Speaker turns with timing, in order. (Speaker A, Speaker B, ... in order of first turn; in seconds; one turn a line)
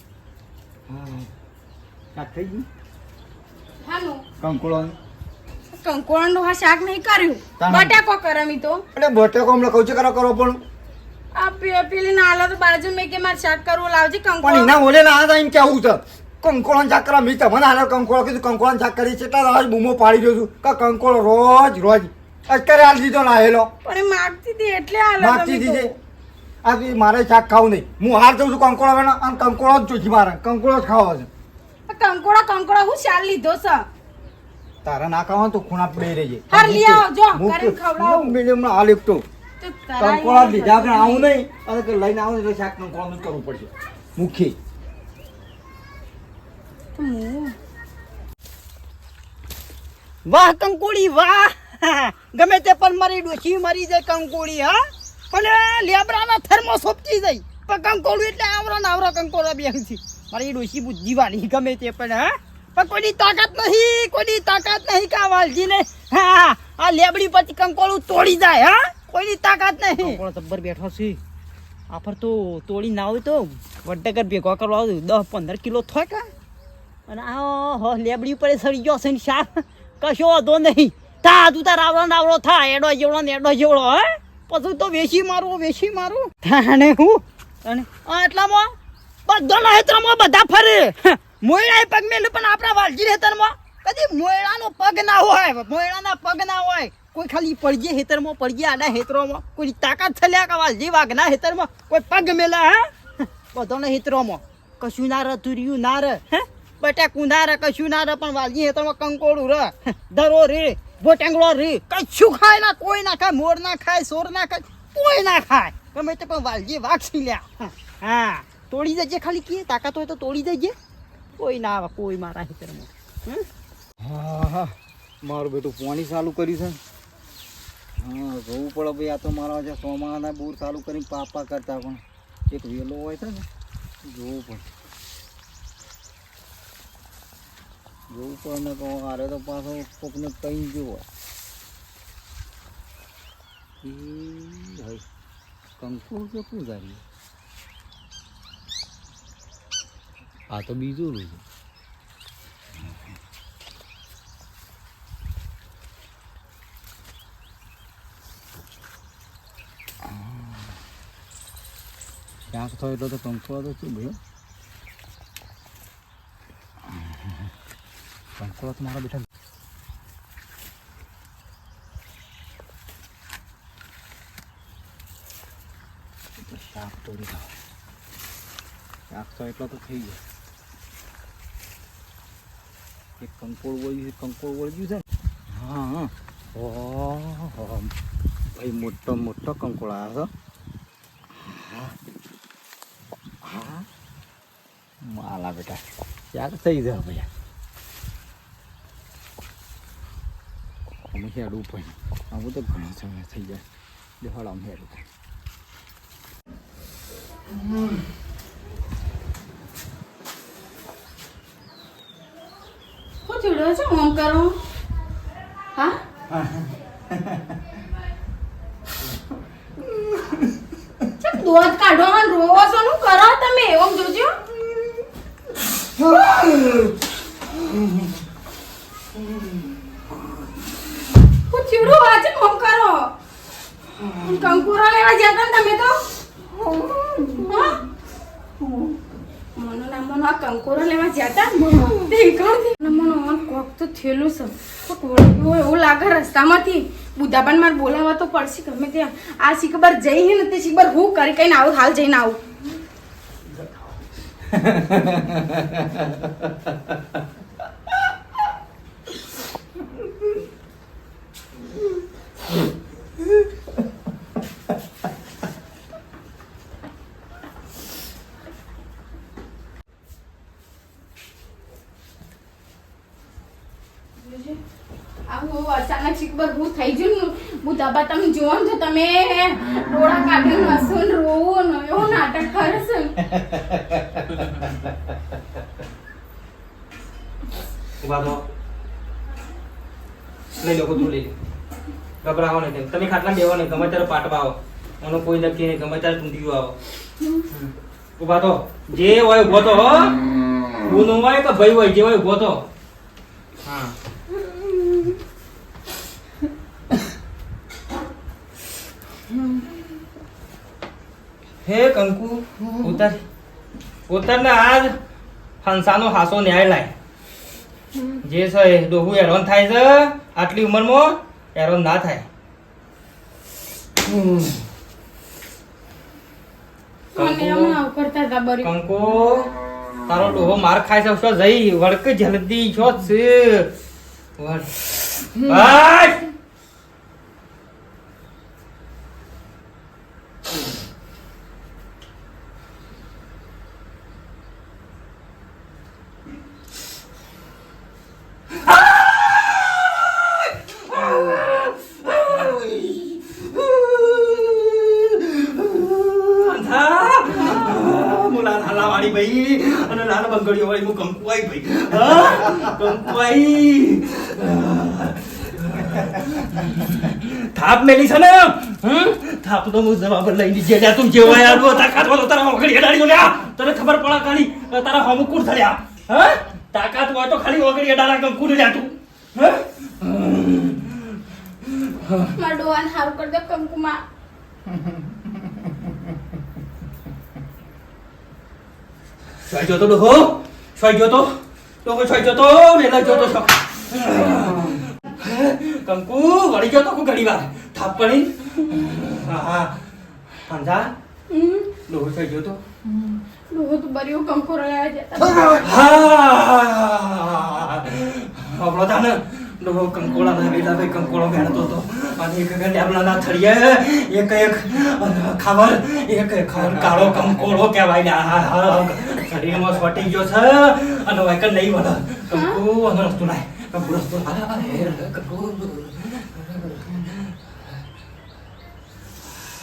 Speaker A: 0.9-1.3
Speaker A: 2.2-2.7
Speaker B: 3.8-4.2
Speaker A: 4.4-5.0
Speaker B: 5.7-8.8
Speaker A: 7.6-8.0
Speaker A: 8.9-10.6
Speaker B: 11.3-14.8
Speaker A: 14.4-23.7
Speaker B: 23.8-25.9
Speaker A: 25.2-25.9
Speaker A: 26.6-31.3
Speaker B: 31.9-33.9
Speaker A: 34.8-39.2
Speaker B: 36.5-38.4
Speaker B: 39.6-41.3
Speaker A: 40.0-44.6
Speaker B: 47.0-47.5
Speaker C: 50.2-71.2
Speaker C: 71.9-76.3
Speaker C: 77.1-88.7
Speaker C: 89.3-120.8
Speaker C: 121.4-123.5
Speaker A: 124.0-126.8
Speaker A: 128.0-133.5
Speaker A: 134.0-134.7
Speaker A: 138.1-141.1
Speaker A: 143.8-145.0
Speaker A: 145.8-147.0
Speaker A: 150.5-151.4
Speaker A: 160.0-160.7
Speaker A: 162.5-164.2
Speaker A: 168.4-169.2
Speaker A: 176.5-177.5
Speaker A: 179.1-180.2
Speaker A: 183.2-187.9
Speaker A: 188.6-190.3
Speaker A: 191.4-191.9
Speaker A: 193.4-193.9
Speaker A: 195.0-195.8
Speaker A: 196.3-197.3
Speaker A: 201.1-203.6
Speaker A: 204.2-205.0
Speaker B: 213.2-214.5
Speaker B: 221.2-224.3
Speaker A: 226.2-226.9
Speaker B: 231.5-233.1
Speaker B: 234.1-236.0
Speaker B: 237.4-237.8
Speaker B: 239.6-252.4
Speaker A: 254.8-255.3
Speaker B: 274.2-274.6
Speaker B: 275.3-283.3
Speaker A: 283.5-284.1
Speaker D: 284.3-284.7
Speaker D: 288.0-288.4
Speaker D: 290.6-291.4
Speaker D: 292.2-296.8
Speaker D: 297.5-300.2
Speaker D: 300.8-302.7
Speaker D: 303.6-303.9
Speaker D: 311.6-313.2
Speaker D: 314.1-314.9
Speaker D: 315.6-316.9
Speaker D: 318.2-322.3
Speaker B: 327.1-328.7
Speaker D: 327.1-327.8
Speaker D: 328.6-329.5
Speaker D: 330.1-333.7
Speaker D: 334.4-336.2
Speaker D: 348.6-382.4
Speaker B: 382.4-384.0
Speaker D: 389.5-399.9
Speaker D: 400.4-400.9
Speaker B: 401.3-401.8
Speaker D: 401.9-402.6
Speaker B: 403.5-405.7
Speaker D: 405.6-427.3
Speaker B: 422.3-422.6